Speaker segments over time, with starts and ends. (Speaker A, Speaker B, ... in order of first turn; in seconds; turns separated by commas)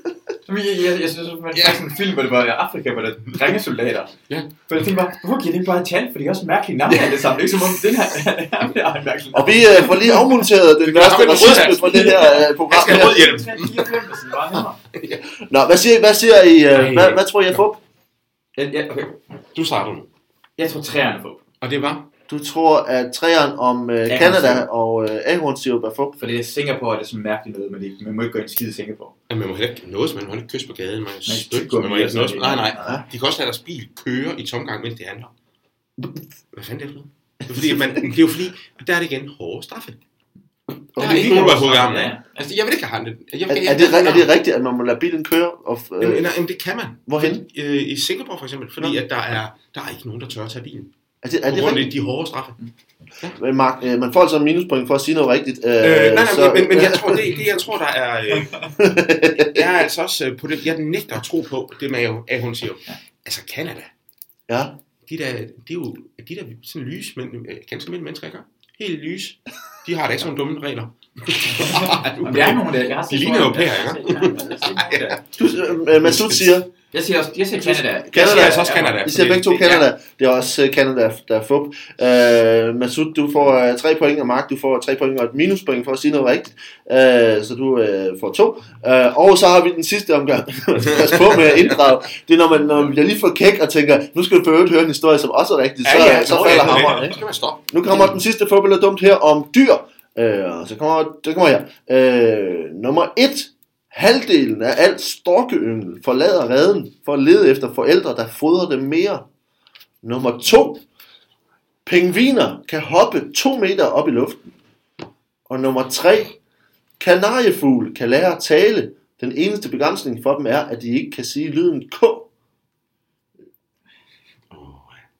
Speaker A: 0.5-4.1, Speaker B: 1.5-1.8, Speaker B: 4.3-4.9, Speaker A: 4.7-10.2, Speaker C: 9.3-13.2, Speaker B: 10.8-13.9, Speaker A: 11.9-14.8, Speaker B: 14.5-15.2, Speaker C: 15.4-17.8, Speaker B: 16.7-17.6, Speaker A: 18.5-19.2, Speaker B: 19.5-20.1, Speaker A: 20.6-21.4, Speaker B: 21.6-22.1, Speaker C: 22.3-26.2, Speaker A: 24.1-24.6, Speaker A: 26.2-29.1, Speaker B: 29.3-35.3, Speaker A: 31.2-33.0, Speaker B: 36.5-40.0, Speaker C: 37.5-38.0, Speaker C: 40.9-41.5, Speaker B: 41.0-44.3, Speaker A: 41.0-42.3, Speaker C: 43.5-46.3, Speaker B: 46.0-50.9, Speaker C: 47.1-47.4, Speaker C: 51.2-51.9, Speaker B: 51.5-52.6, Speaker C: 53.3-57.4, Speaker B: 55.8-58.7, Speaker C: 58.8-59.7, Speaker B: 59.4-63.9, Speaker C: 64.5-64.7, Speaker B: 65.0-75.2, Speaker A: 71.5-75.2, Speaker C: 75.4-76.7, Speaker B: 75.9-76.6, Speaker A: 76.9-79.0, Speaker C: 77.6-109.2, Speaker B: 78.1-79.9, Speaker B: 90.8-91.7, Speaker B: 95.8-97.6, Speaker C: 110.0-110.8, Speaker C: 111.8-114.5, Speaker C: 115.5-116.4, Speaker C: 117.0-122.3, Speaker B: 124.5-125.0